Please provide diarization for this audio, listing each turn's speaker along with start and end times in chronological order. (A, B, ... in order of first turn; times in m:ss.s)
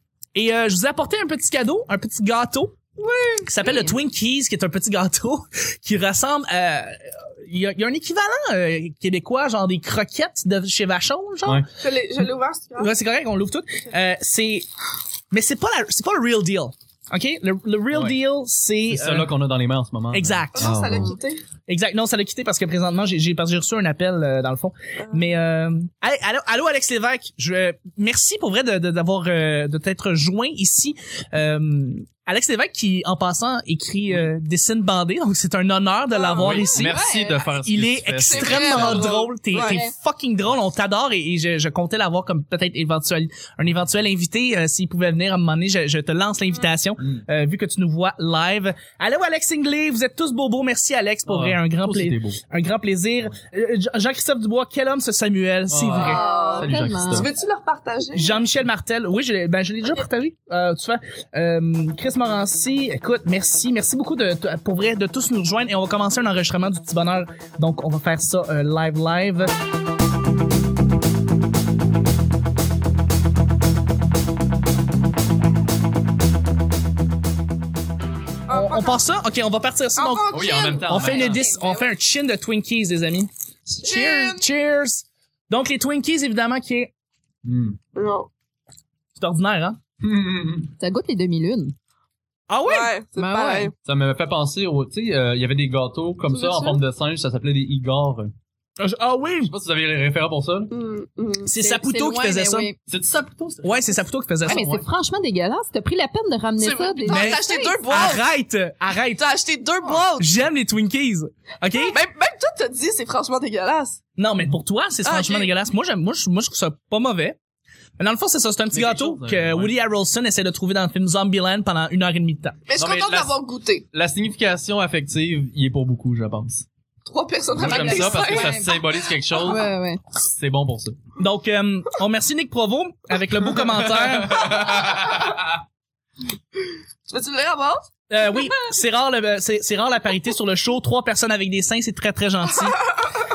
0:00.3-0:02.8 A
0:03.0-0:03.5 B
0:03.4-0:11.6 A
0:11.8-0:12.9 B
0:12.8-0:14.7 A
0:15.3-0:19.3 A
0:17.9-0:18.2 C
0:18.9-0:21.1 C
0:20.1-0:20.8 A
0:20.5-0:21.4 B
0:21.7-0:37.0 A
0:25.0-0:25.3 B
0:36.2-0:36.7 B
0:36.4-0:39.2 C
0:36.8-0:37.4 D
0:37.6-0:56.2 A
0:38.3-0:39.8 B
0:39.6-0:39.9 D
0:51.3-0:52.4 C
0:55.7-0:57.3 C
0:56.0-0:58.4 B
0:56.0-0:57.3 D
0:58.1-1:09.5 A
1:18.5-1:19.0 B
1:18.5-1:26.9 A
1:20.0-1:21.5 B
1:20.3-1:21.4 C
1:21.1-1:21.9 D
1:23.8-1:24.4 B
1:27.4-1:27.8 C
1:27.9-1:28.3 B
1:29.2-1:29.8 A
1:30.0-1:30.7 C
1:30.8-1:31.7 D
1:32.5-1:32.9 A
1:32.6-1:33.7 B
1:33.2-1:33.7 D
1:33.8-1:38.3 C
1:36.3-1:36.8 B
1:38.8-1:39.5 A
1:39.4-1:40.7 C
1:40.7-1:41.5 B
1:41.4-1:42.7 A
1:41.6-1:42.8 D
1:42.9-1:44.9 C
1:43.6-1:44.6 A
1:44.4-1:47.8 D
1:46.6-1:48.2 B
1:47.1-1:49.2 A
1:49.2-1:50.3 B
1:50.2-1:52.0 A
1:51.8-1:54.0 B
1:54.2-1:57.4 A
1:55.0-1:55.5 B
1:58.0-2:02.6 A
1:58.7-1:59.7 C
2:02.7-2:03.8 B
2:02.8-2:03.4 C
2:03.9-2:06.7 C
2:07.0-2:08.8 B
2:07.5-2:11.0 C
2:07.6-2:10.0 D
2:11.2-2:14.6 A
2:13.8-2:15.5 C
2:14.8-2:15.2 B
2:17.1-2:17.9 B
2:18.1-2:22.9 A